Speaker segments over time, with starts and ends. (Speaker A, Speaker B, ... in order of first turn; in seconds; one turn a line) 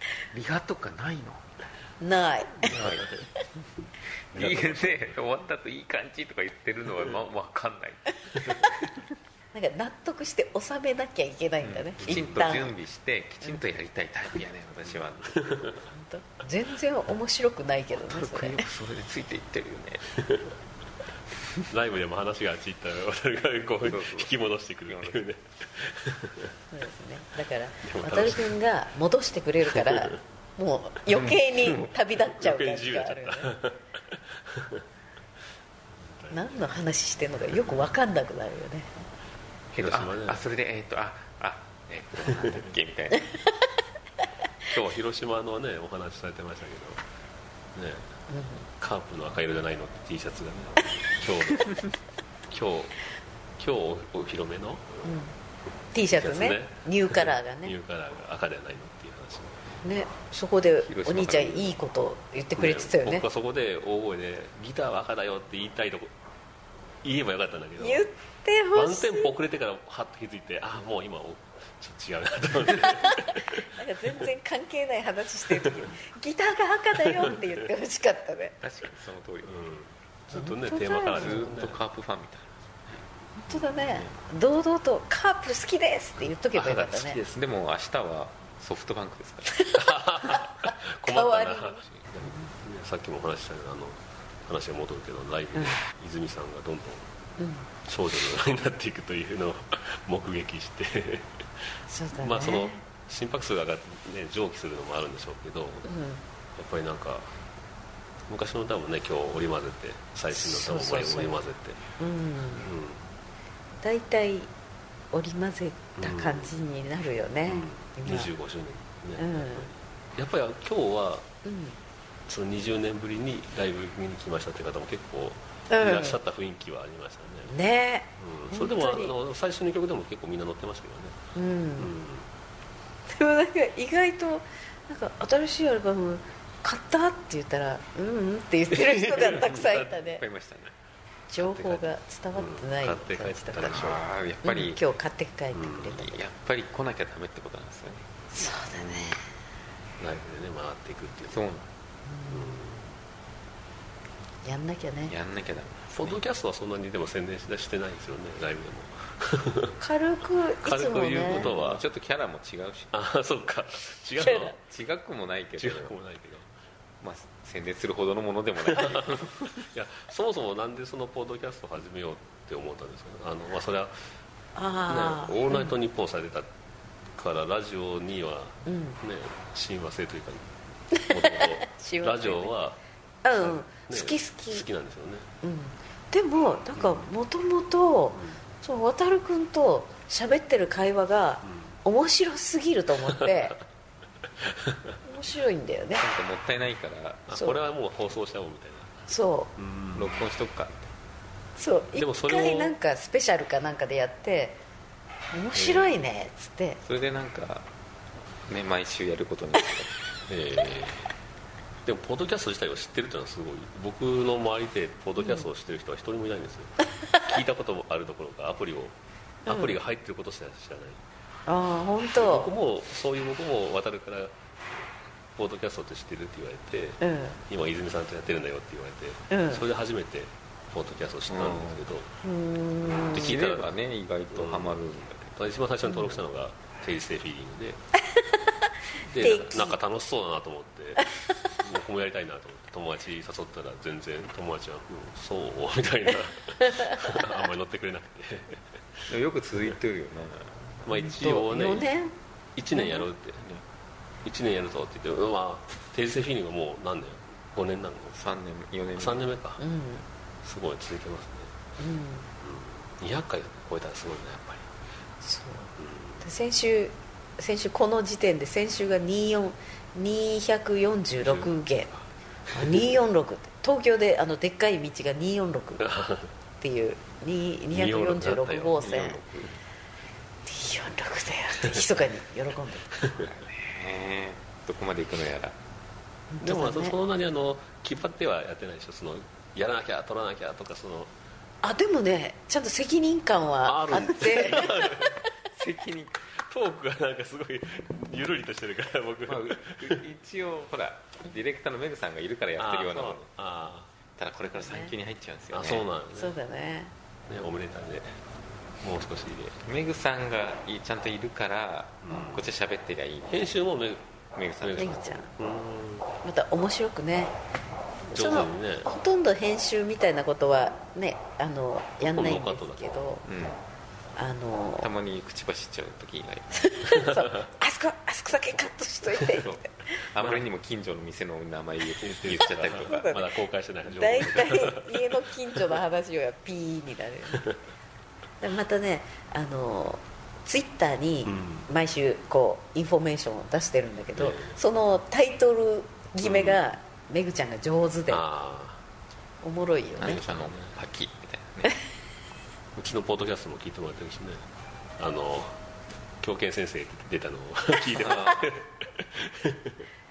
Speaker A: 0.3-1.6
Speaker B: 2.0-2.8
Speaker C: 2.6-3.2
Speaker A: 2.7-3.2
Speaker A: 4.3-8.6
Speaker C: 4.3-5.2
Speaker B: 9.5-12.8
Speaker A: 11.6-15.8
Speaker C: 12.0-12.5
Speaker C: 14.9-15.8
Speaker B: 15.9-18.7
Speaker A: 18.0-20.1
Speaker C: 20.2-20.5
Speaker C: 21.7-26.6
Speaker A: 23.8-25.3
Speaker B: 26.7-33.5
Speaker C: 27.8-28.6
Speaker C: 29.6-30.2
Speaker A: 31.1-31.9
Speaker C: 32.2-34.9
Speaker C: 35.9-36.8
Speaker B: 36.3-38.9
Speaker C: 37.5-37.8
Speaker C: 39.7-40.4
Speaker A: 39.7-43.4
Speaker C: 42.2-42.7
Speaker C: 44.7-47.0
Speaker C: 47.7-48.1
Speaker B: 48.3-48.6
Speaker C: 48.7-51.8
Speaker C: 52.5-53.0
Speaker C: 53.6-55.0
Speaker B: 55.0-55.3
Speaker B: 55.9-57.7
Speaker C: 56.0-59.7
Speaker B: 59.8-63.3
Speaker A: 60.8-61.8
Speaker C: 62.6-66.1
Speaker C: 67.0-68.1
Speaker B: 67.8-69.3
Speaker C: 68.7-73.8
Speaker B: 72.9-78.6
Speaker C: 77.0-77.4
Speaker A: 78.6-79.5
Speaker C: 79.4-81.8
Speaker B: 80.3-81.6
Speaker A: 81.1-83.0
Speaker B: 83.4-87.2
Speaker C: 83.5-84.2
Speaker C: 86.5-87.4
Speaker A: 87.3-89.6
Speaker B: 89.6-92.5
Speaker C: 89.7-97.1
Speaker B: 95.5-95.8
Speaker B: 97.4-97.7
Speaker C: 97.8-105.9
Speaker B: 101.9-102.8
Speaker B: 105.8-106.2
Speaker C: 106.6-107.3
Speaker C: 108.3-111.8
Speaker B: 110.3-111.4
Speaker B: 112.0-112.7
Speaker C: 112.6-113.1
Speaker B: 113.8-114.5
Speaker B: 115.1-118.3
Speaker C: 116.0-116.6
Speaker C: 117.5-121.3
Speaker B: 119.2-119.7
Speaker B: 121.4-121.8
Speaker C: 122.3-127.5
Speaker B: 125.7-126.2
Speaker B: 127.5-129.1
Speaker C: 128.2-131.2
Speaker B: 131.3-131.9
Speaker C: 131.8-132.3
Speaker B: 133.1-140.2
Speaker C: 138.7-139.8
Speaker A: 139.6-140.7
Speaker B: 141.3-143.9
Speaker C: 141.4-144.0
Speaker A: 143.7-144.8
Speaker B: 144.4-146.2
Speaker C: 145.5-146.0
Speaker A: 146.0-148.1
Speaker B: 148.3-149.3
Speaker C: 148.7-149.2
Speaker C: 150.0-151.4
Speaker A: 151.3-151.7
Speaker B: 152.1-152.6
Speaker C: 152.3-152.9
Speaker B: 154.4-155.1
Speaker A: 155.1-156.2
Speaker C: 155.9-159.8
Speaker B: 159.8-161.5
Speaker C: 160.6-161.8
Speaker A: 161.3-163.0
Speaker C: 162.9-164.6
Speaker B: 164.2-164.6
Speaker A: 164.5-166.0
Speaker C: 165.6-166.5
Speaker A: 167.0-169.6
Speaker C: 168.8-174.0
Speaker B: 174.6-175.8
Speaker C: 174.9-176.5
Speaker C: 177.2-182.8
Speaker B: 178.7-179.0
Speaker B: 180.9-182.6
Speaker B: 183.2-184.7
Speaker C: 183.3-185.3
Speaker B: 185.4-193.6
Speaker C: 186.8-187.1
Speaker C: 188.1-188.4
Speaker C: 191.4-191.8
Speaker C: 193.1-193.5
Speaker C: 194.3-195.0
Speaker B: 195.1-196.1
Speaker A: 195.9-197.3
Speaker C: 197.3-200.2
Speaker B: 199.1-199.5
Speaker A: 199.9-200.9
Speaker B: 201.6-204.6
Speaker C: 201.9-202.8
Speaker B: 205.3-206.8
Speaker C: 205.6-205.9
Speaker A: 206.8-207.7
Speaker A: 208.5-209.9
Speaker C: 210.3-211.1
Speaker C: 211.8-221.0
Speaker B: 215.2-215.5
Speaker B: 219.5-219.8
Speaker B: 221.5-222.5
Speaker C: 222.1-224.4
Speaker C: 225.4-232.1
Speaker B: 227.0-227.4
Speaker B: 229.3-229.6
Speaker A: 231.3-231.8
Speaker B: 232.2-233.4
Speaker C: 233.0-233.7
Speaker A: 233.1-235.3
Speaker C: 234.3-234.8
Speaker C: 235.3-237.8
Speaker B: 235.9-236.2
Speaker C: 239.1-249.1
Speaker B: 239.2-239.8
Speaker A: 249.1-250.6
Speaker C: 250.8-251.9
Speaker B: 250.9-252.1
Speaker C: 252.6-253.6
Speaker B: 252.7-253.1
Speaker C: 254.2-258.4
Speaker A: 258.1-259.3
Speaker C: 259.0-259.6
Speaker B: 259.6-260.1
Speaker C: 260.4-261.5
Speaker B: 261.8-262.3
Speaker C: 262.4-264.7
Speaker B: 265.2-271.9
Speaker C: 265.8-266.2
Speaker C: 271.2-272.9
Speaker B: 272.5-275.9
Speaker C: 275.8-276.3
Speaker B: 276.6-279.2
Speaker C: 277.7-279.2
Speaker A: 278.8-279.5
Speaker B: 280.5-282.9
Speaker C: 282.9-283.3
Speaker A: 283.2-285.6
Speaker B: 286.3-287.0
Speaker C: 286.4-291.1
Speaker B: 291.6-295.1
Speaker C: 293.6-295.1
Speaker A: 295.5-296.3
Speaker C: 296.3-300.0
Speaker A: 299.3-303.2
Speaker C: 302.6-303.9
Speaker A: 304.2-305.9
Speaker B: 304.5-304.9
Speaker C: 305.5-306.4
Speaker B: 306.1-306.9
Speaker C: 307.3-308.2
Speaker C: 308.8-309.6
Speaker A: 309.6-313.5
Speaker C: 312.0-312.5
Speaker C: 313.3-314.0
Speaker A: 314.4-315.2
Speaker C: 314.6-316.1
Speaker B: 314.8-315.3
Speaker B: 316.2-317.3
Speaker C: 318.1-318.9
Speaker B: 318.1-323.2
Speaker C: 322.0-323.1
Speaker A: 323.2-323.6
Speaker B: 324.2-324.9
Speaker A: 324.8-326.9
Speaker B: 326.6-329.7
Speaker A: 329.2-333.2
Speaker C: 330.2-330.5
Speaker C: 332.0-335.6
Speaker B: 332.8-333.3
Speaker B: 333.9-337.5
Speaker B: 338.4-348.2
Speaker C: 341.2-341.7
Speaker C: 344.1-344.6
Speaker C: 346.2-346.6
Speaker C: 348.1-348.8
Speaker B: 349.4-350.2
Speaker C: 350.0-350.8
Speaker A: 350.0-351.8
Speaker C: 352.8-354.5
Speaker C: 355.0-355.6
Speaker C: 356.2-359.9
Speaker A: 358.1-358.4